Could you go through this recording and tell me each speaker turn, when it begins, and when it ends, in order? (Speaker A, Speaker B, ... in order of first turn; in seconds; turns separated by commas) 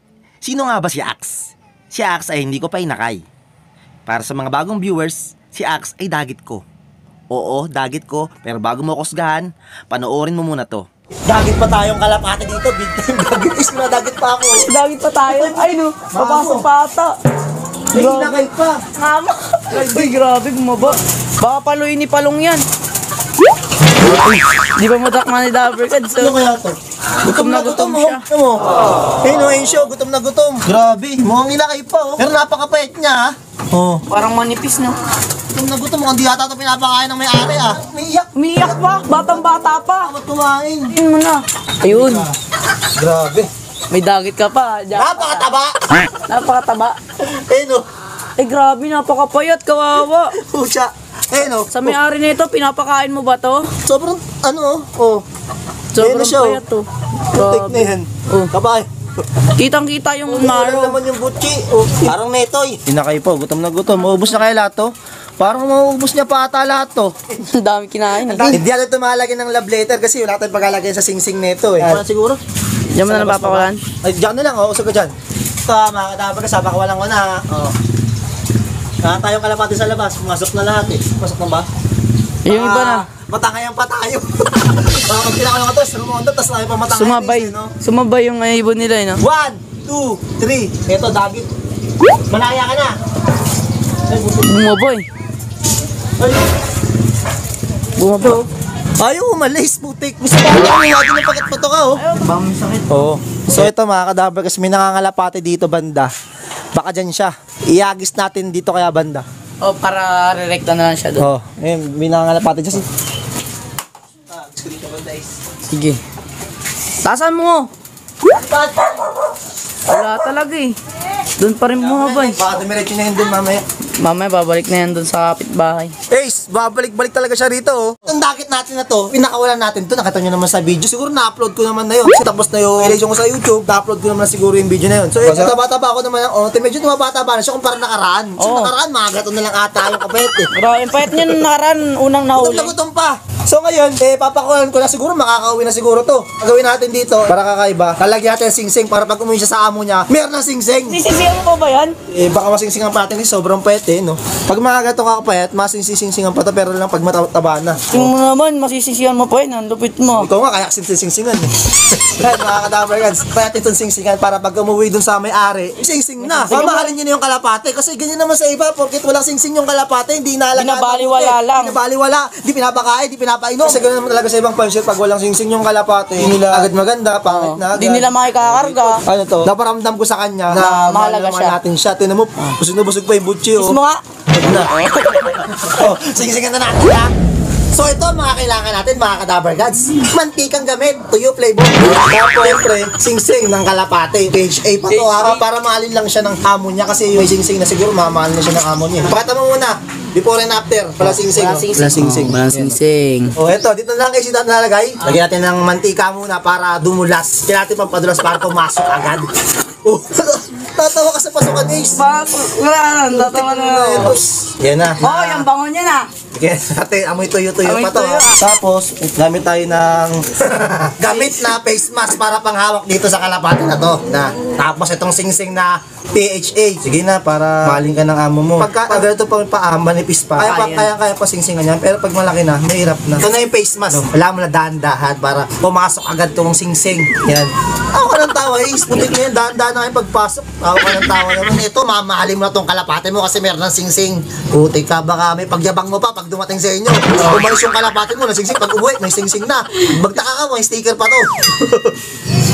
Speaker A: 0.4-3.2, Speaker A: 4.1-6.6, Speaker A: 7.3-10.9, Speaker B: 11.3-14.7, Speaker C: 14.5-17.1, Speaker B: 15.3-16.7, Speaker C: 17.9-18.4, Speaker B: 17.9-18.8, Speaker C: 19.0-22.6, Speaker B: 19.7-20.0, Speaker C: 24.1-26.4, Speaker B: 26.1-28.6, Speaker C: 27.2-28.2, Speaker B: 29.2-34.0, Speaker C: 34.1-35.0, Speaker B: 35.5-38.3, Speaker C: 38.3-40.1, Speaker B: 40.0-40.9, Speaker C: 40.9-42.3, Speaker B: 41.9-42.3, Speaker B: 43.0-43.5, Speaker C: 43.9-45.5, Speaker B: 44.9-45.8, Speaker C: 46.3-47.0, Speaker B: 47.2-47.9, Speaker C: 48.4-50.4, Speaker B: 50.4-51.9, Speaker C: 51.7-53.7, Speaker B: 53.9-55.2, Speaker C: 55.9-58.5, Speaker B: 56.0-56.6, Speaker B: 57.3-58.9, Speaker C: 59.6-61.0, Speaker B: 60.3-67.2, Speaker A: 62.9-63.7, Speaker C: 67.4-68.6, Speaker B: 68.3-72.0, Speaker A: 71.8-72.4, Speaker C: 72.9-73.8, Speaker B: 73.1-75.1, Speaker B: 75.7-77.7, Speaker B: 79.0-81.7, Speaker C: 82.5-83.1, Speaker B: 82.5-87.7, Speaker C: 86.9-89.2, Speaker B: 89.2-91.5, Speaker B: 92.3-93.0, Speaker B: 94.1-94.4, Speaker C: 94.4-95.1, Speaker C: 98.0-98.5, Speaker B: 99.0-102.0, Speaker C: 102.0-103.0, Speaker B: 103.0-106.1, Speaker B: 106.8-109.2, Speaker C: 109.6-111.3, Speaker B: 111.2-112.8, Speaker B: 114.6-115.0, Speaker C: 115.7-116.0, Speaker C: 117.0-117.7, Speaker C: 119.9-120.8, Speaker C: 121.4-122.4, Speaker B: 121.8-123.6, Speaker C: 124.0-125.9, Speaker B: 126.1-140.5, Speaker C: 138.4-138.7, Speaker C: 140.5-142.7, Speaker B: 142.4-151.0, Speaker C: 150.9-152.0, Speaker B: 152.1-158.1, Speaker C: 157.9-160.3, Speaker B: 160.2-183.8, Speaker C: 166.2-166.9, Speaker C: 170.6-171.8, Speaker C: 177.2-179.0, Speaker C: 180.5-181.6, Speaker C: 183.6-184.0, Speaker B: 184.3-184.7, Speaker C: 184.8-185.6, Speaker B: 185.6-187.1, Speaker B: 187.7-202.4, Speaker C: 194.9-195.4, Speaker C: 201.0-203.3, Speaker B: 203.4-209.3, Speaker B: 209.8-212.0, Speaker C: 211.9-214.2, Speaker B: 213.2-215.5, Speaker C: 215.0-216.1, Speaker B: 216.3-252.0, Speaker C: 217.6-218.4, Speaker A: 230.4-230.9